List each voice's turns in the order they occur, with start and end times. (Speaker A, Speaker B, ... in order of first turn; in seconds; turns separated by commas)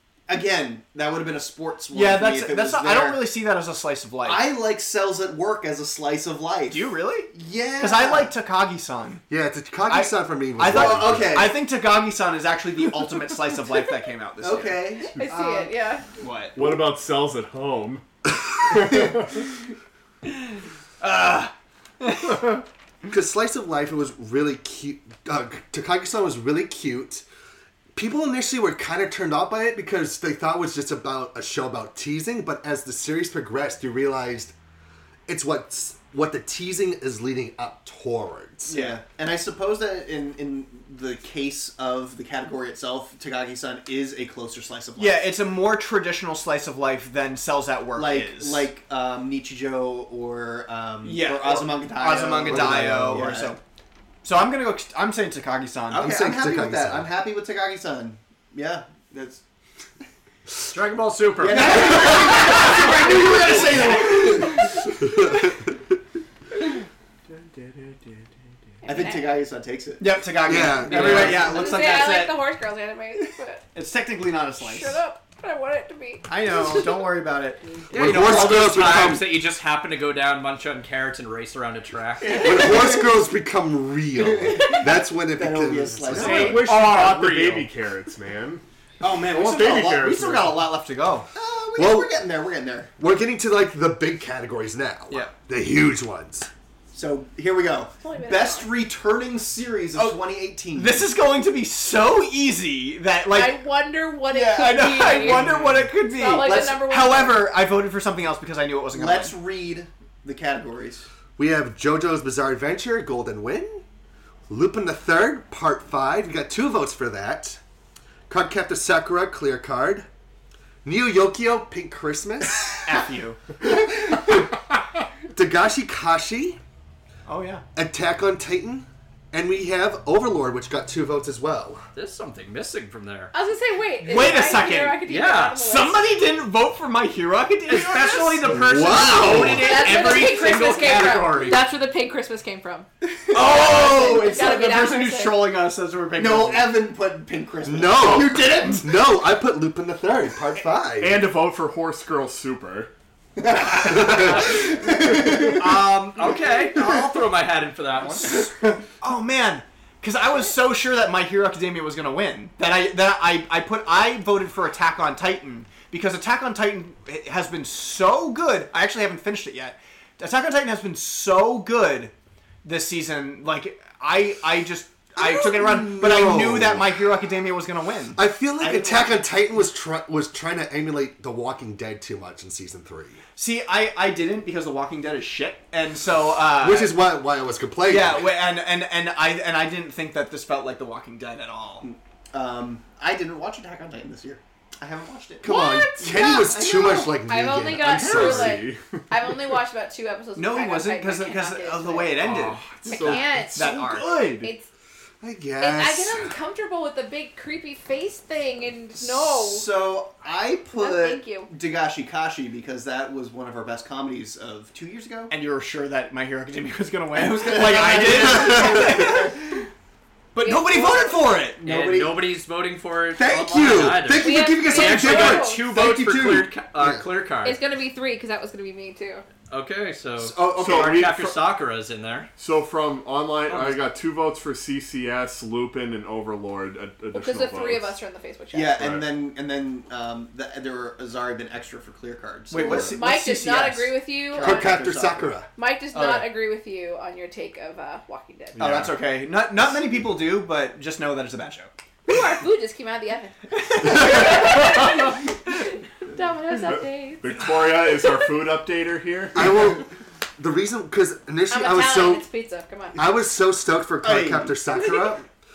Speaker A: 0.3-3.2, Speaker B: 1.9-4.5, Speaker A: 4.2-8.3, Speaker B: 6.7-9.2, Speaker C: 9.3-11.5, Speaker B: 9.9-14.8, Speaker A: 10.6-11.6, Speaker A: 14.4-15.7, Speaker D: 15.2-16.0, Speaker B: 16.2-16.6, Speaker E: 16.6-18.0, Speaker E: 18.6-19.2, Speaker B: 21.0-22.6, Speaker C: 23.1-27.2, Speaker C: 27.9-34.5, Speaker C: 35.3-38.7, Speaker A: 38.7-45.2, Speaker B: 38.7-39.0, Speaker B: 45.0-48.7, Speaker A: 48.0-53.6, Speaker B: 51.0-53.6, Speaker C: 52.4-53.2, Speaker B: 54.2-56.1, Speaker A: 55.9-59.4, Speaker C: 56.0-57.1, Speaker F: 60.7-62.8, Speaker A: 61.4-64.6, Speaker B: 61.4-64.6, Speaker C: 65.0-65.3, Speaker D: 68.8-69.4, Speaker A: 68.8-72.0, Speaker B: 70.0-72.4, Speaker C: 70.4-71.5, Speaker D: 71.4-73.6, Speaker B: 73.7-75.0, Speaker D: 74.6-76.3, Speaker B: 76.3-79.2, Speaker F: 77.9-82.7, Speaker C: 77.9-79.3, Speaker A: 82.2-83.1, Speaker C: 82.4-86.4, Speaker A: 84.2-86.8, Speaker E: 86.1-88.6, Speaker B: 86.1-87.7, Speaker B: 89.0-91.3, Speaker A: 89.1-89.9, Speaker E: 89.3-90.6, Speaker A: 91.3-92.9, Speaker C: 91.7-92.1, Speaker C: 93.0-96.5, Speaker A: 96.9-101.1, Speaker D: 98.0-98.7, Speaker B: 99.9-100.2, Speaker B: 100.7-103.6, Speaker D: 103.3-107.5, Speaker B: 104.3-109.3, Speaker A: 104.3-105.7, Speaker A: 108.9-111.1, Speaker C: 111.4-113.8, Speaker C: 114.5-117.6, Speaker C: 118.3-120.0, Speaker C: 120.8-122.9, Speaker B: 122.8-123.4, Speaker C: 123.9-124.4, Speaker C: 125.3-126.6, Speaker B: 127.3-127.6, Speaker C: 127.8-131.8, Speaker F: 131.9-133.3, Speaker D: 133.3-136.0, Speaker B: 134.0-141.6, Speaker F: 135.0-135.7, Speaker F: 137.7-141.6, Speaker C: 138.5-139.7, Speaker D: 139.5-145.4, Speaker A: 143.3-143.7, Speaker B: 143.3-146.8, Speaker A: 146.2-148.9, Speaker C: 147.6-151.2, Speaker E: 151.0-152.9, Speaker A: 153.4-155.7, Speaker C: 154.0-154.2, Speaker B: 154.0-154.3, Speaker F: 154.1-154.6, Speaker B: 155.5-156.7, Speaker F: 155.8-158.4, Speaker B: 158.0-158.5, Speaker B: 159.0-172.1, Speaker B: 172.6-179.1, Speaker C: 175.2-177.0, Speaker C: 178.1-183.2, Speaker B: 183.4-186.9, Speaker C: 186.6-188.3, Speaker B: 187.9-191.8, Speaker A: 191.8-195.5, Speaker C: 195.4-198.7, Speaker D: 195.4-202.2, Speaker E: 197.8-198.8, Speaker B: 200.3-204.4, Speaker E: 202.2-204.5, Speaker D: 202.9-204.7, Speaker C: 205.2-206.3, Speaker D: 205.6-209.7, Speaker A: 209.0-215.3, Speaker D: 210.7-211.5, Speaker B: 215.3-219.4, Speaker A: 217.1-219.6, Speaker C: 218.4-218.9, Speaker B: 220.3-221.6, Speaker D: 220.4-221.2, Speaker A: 221.6-222.3, Speaker F: 221.6-227.6, Speaker C: 223.1-227.0, Speaker D: 224.1-225.7, Speaker D: 227.4-229.2, Speaker F: 229.5-232.3, Speaker A: 230.2-230.9, Speaker E: 230.6-231.4, Speaker E: 232.4-237.9, Speaker F: 233.5-233.8, Speaker D: 237.1-238.8, Speaker A: 238.5-243.0, Speaker E: 238.8-239.1, Speaker B: 242.5-243.9, Speaker E: 242.6-242.9, Speaker D: 242.7-244.8, Speaker A: 244.3-245.3, Speaker C: 244.4-245.5, Speaker D: 245.6-248.6, Speaker B: 245.9-246.3, Speaker E: 248.6-249.0, Speaker B: 248.6-251.7, Speaker D: 252.1-257.4, Speaker B: 253.8-254.4, Speaker E: 253.8-254.9, Speaker E: 256.5-259.8, Speaker C: 259.3-262.2, Speaker D: 261.5-263.1, Speaker C: 262.9-265.2, Speaker B: 264.0-264.5